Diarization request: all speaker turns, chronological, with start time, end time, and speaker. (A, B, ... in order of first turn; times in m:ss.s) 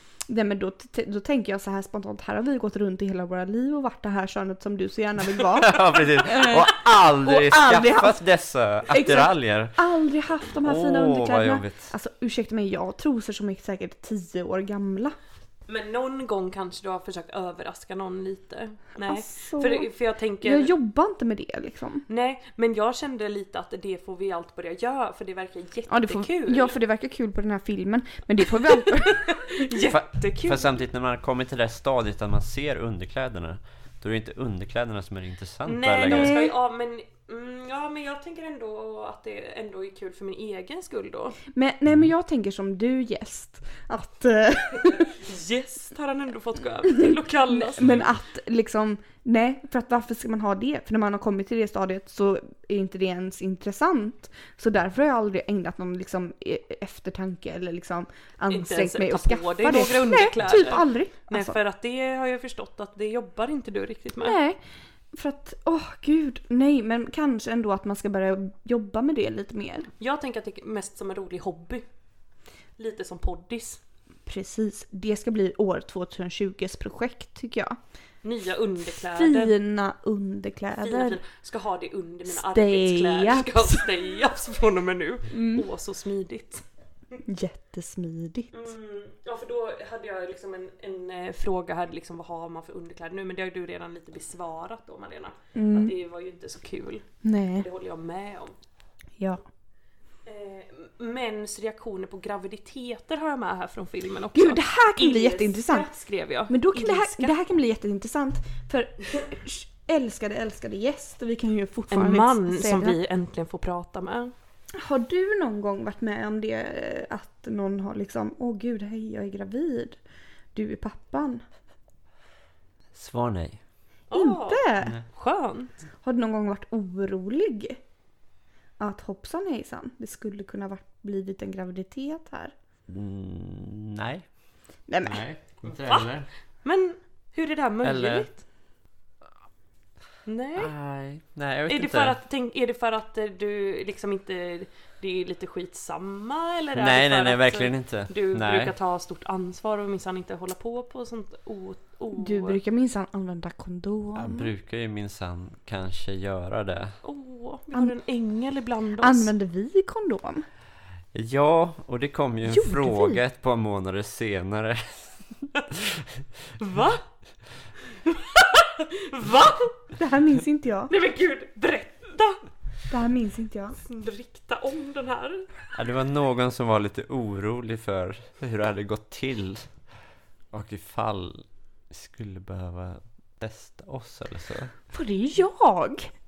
0:00.3-0:08.2 A
0:05.6-0:09.8 B
0:08.9-0:15.2 A
0:10.6-0:11.9 B
0:15.7-0:20.7 C
0:19.0-0:19.9 A
0:20.4-0:22.1 A
0:22.1-0:26.7 C
0:25.9-0:29.7 A
0:28.9-0:30.7 C
0:29.9-0:36.4 B
0:35.6-0:41.4 C
0:36.1-0:36.5 A
0:41.5-0:45.2 A
0:45.2-0:48.0 C
0:46.9-1:01.6 A
0:58.5-1:04.4 C
1:04.2-1:04.6 A
1:05.1-1:09.9 A
1:10.0-1:11.8 C
1:12.8-1:13.8 C
1:14.3-1:17.8 A
1:18.2-1:19.6 C
1:18.9-1:21.2 A
1:20.8-1:26.6 C
1:22.3-1:23.7 A
1:25.3-1:25.7 A
1:27.2-1:28.6 A
1:28.5-1:38.6 C
1:35.6-1:35.9 A
1:37.2-1:37.7 A
1:40.2-1:47.3 C
1:44.4-1:45.9 A
1:46.5-1:53.0 A
1:51.9-1:54.3 C
1:54.8-2:00.0 A
2:00.6-2:01.4 A
2:03.0-2:03.6 B
2:04.1-2:05.7 C
2:04.1-2:05.0 A
2:06.0-2:07.8 A
2:08.8-2:12.5 A
2:12.9-2:14.2 B
2:14.9-2:15.2 A
2:15.0-2:16.3 B
2:16.6-2:18.4 C
2:17.8-2:18.3 B
2:20.3-2:20.7 C
2:20.6-2:22.2 B
2:21.7-2:32.6 C
2:26.7-2:28.7 B
2:32.1-2:34.5 A
2:34.2-2:37.0 B
2:37.0-2:39.3 C
2:39.0-2:40.4 A
2:41.1-2:46.2 B
2:42.5-2:43.2 A
2:46.6-2:47.0 C
2:47.9-2:49.8 C
2:50.0-2:50.9 A
2:50.9-2:52.4 C
2:52.9-2:53.8 A
2:53.8-2:55.5 C
2:55.7-2:59.7 B
3:00.5-3:04.7 B
3:04.9-3:06.1 A